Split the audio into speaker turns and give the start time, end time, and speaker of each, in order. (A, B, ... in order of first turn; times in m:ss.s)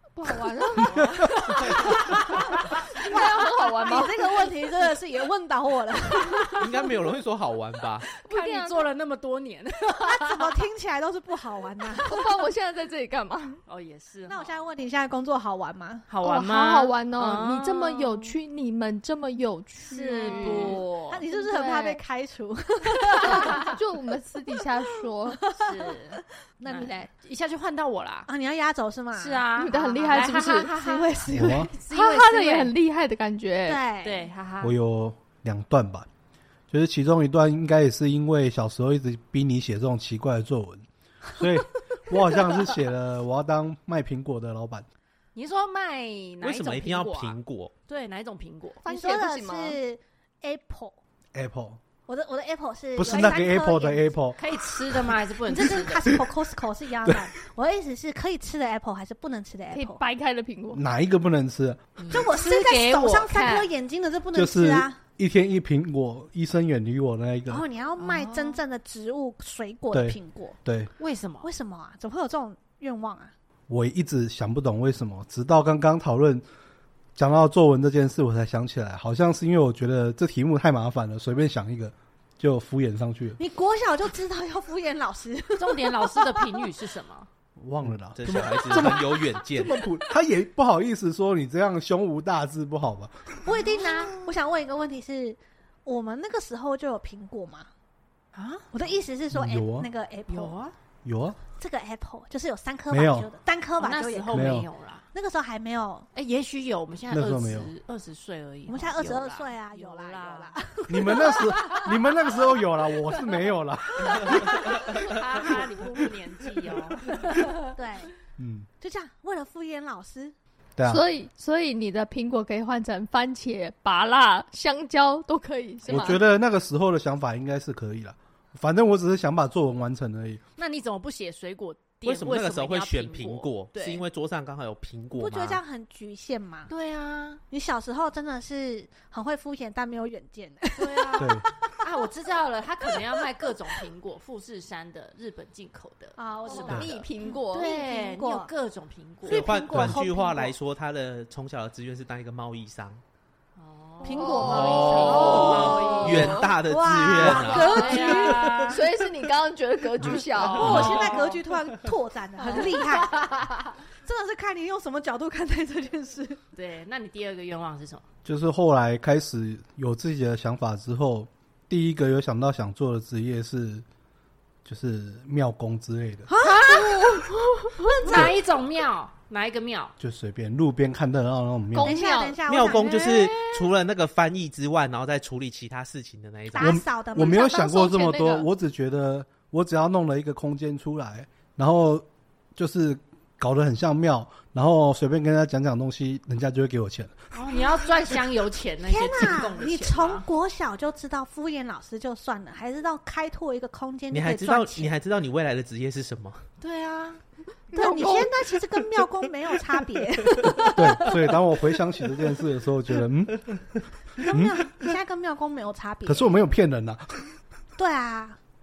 0:00.2-0:04.5 A
0:00.8-0:03.1 B
0:01.7-0:02.4 C
0:03.1-0:06.9 C
0:06.6-0:08.1 D
0:08.2-0:10.6 B
0:08.2-0:08.9 A
0:10.0-0:12.2 C
0:12.0-0:13.6 A
0:13.7-0:14.7 B
0:14.3-0:16.1 C
0:16.1-0:18.4 B
0:16.2-0:22.0 A
0:19.8-0:21.2 B
0:20.2-0:23.7 C
0:23.2-0:23.7 B
0:23.3-0:25.4 A
0:25.2-0:27.1 C
0:25.5-0:28.3 B
0:28.3-0:29.5 C
0:29.2-0:32.7 B
0:29.6-0:30.7 A
0:30.1-0:31.7 C
0:31.3-0:31.7 E
0:31.9-0:33.8 A
0:33.6-0:34.3 C
0:34.0-0:34.8 B
0:34.6-0:36.1 E
0:36.7-0:44.9 E
0:45.4-0:48.8 B
0:46.4-0:47.7 D
0:48.8-0:49.8 A
0:48.9-0:51.0 C
0:51.4-0:51.8 E
0:52.1-0:54.2 C
0:53.0-0:54.4 E
0:54.4-0:56.2 B
0:55.4-1:00.0 C
0:59.7-1:00.8 A
1:00.7-1:01.8 E
1:02.0-1:03.7 B
1:02.1-1:05.0 C
1:04.3-1:07.6 E
1:07.5-1:10.6 C
1:08.0-1:08.6 B
1:09.9-1:10.9 E
1:11.0-1:11.5 B
1:11.4-1:13.3 C
1:13.7-1:16.4 E
1:17.2-1:23.4 E
1:23.4-1:26.7 C
1:25.6-1:27.3 B
1:27.6-1:33.4 E
1:28.2-1:29.8 D
1:33.4-1:37.7 C
1:33.5-1:34.3 B
1:38.3-1:38.9 B
1:38.7-1:40.6 C
1:39.3-1:39.9 E
1:40.3-1:40.7 B
1:41.0-1:41.4 E
1:41.6-1:46.1 C
1:42.9-1:43.3 E
1:43.8-1:45.0 B
1:44.3-1:44.7 E
1:46.2-1:50.6 B
1:47.1-1:47.7 E
1:48.7-1:51.9 C
1:50.9-1:55.0 E
1:54.5-1:57.7 B
1:57.7-1:58.1 C
1:58.4-1:58.7 E
1:58.8-2:00.3 C
2:00.8-2:01.0 E
2:00.8-2:06.2 A
2:05.9-2:10.4 E
2:10.6-2:14.1 B
2:12.0-2:15.6 D
2:15.2-2:16.7 C
2:16.7-2:17.4 B
2:17.5-2:21.9 C
2:20.8-2:29.9 B
2:21.2-2:21.5 E
2:26.2-2:28.5 C
2:26.6-2:27.7 A
2:29.2-2:30.6 C
2:29.3-2:33.0 D
2:33.6-2:36.5 B
2:34.0-2:38.8 C
2:34.2-2:36.5 A
2:34.4-2:38.6 D
2:37.1-2:38.8 B
2:38.0-2:41.0 A
2:40.1-2:41.4 B
2:40.5-2:43.4 C
2:40.7-2:41.0 D
2:42.6-2:43.7 B
2:44.0-2:46.4 C
2:46.6-2:48.1 B
2:48.2-2:53.8 E
2:54.6-2:56.3 E
2:56.3-2:57.2 C
2:56.5-2:56.8 B
2:56.6-2:58.2 A
2:57.8-2:58.4 C
2:58.0-3:00.0 B
3:00.0-3:02.0 E
3:01.7-3:03.2 A
3:01.8-3:03.4 C
3:02.5-3:06.8 D
3:06.5-3:07.9 C
3:06.6-3:12.0 E
3:07.2-3:08.5 A
3:12.6-3:17.2 E
3:17.3-3:20.2 B
3:18.9-3:24.9 C
3:24.1-3:26.5 D
3:26.6-3:27.2 B
3:27.7-3:28.4 A
3:27.7-3:31.2 C
3:30.8-3:33.5 E
3:34.2-3:34.6 E
3:34.2-3:36.4 C
3:36.1-3:37.3 E
3:37.8-3:38.4 C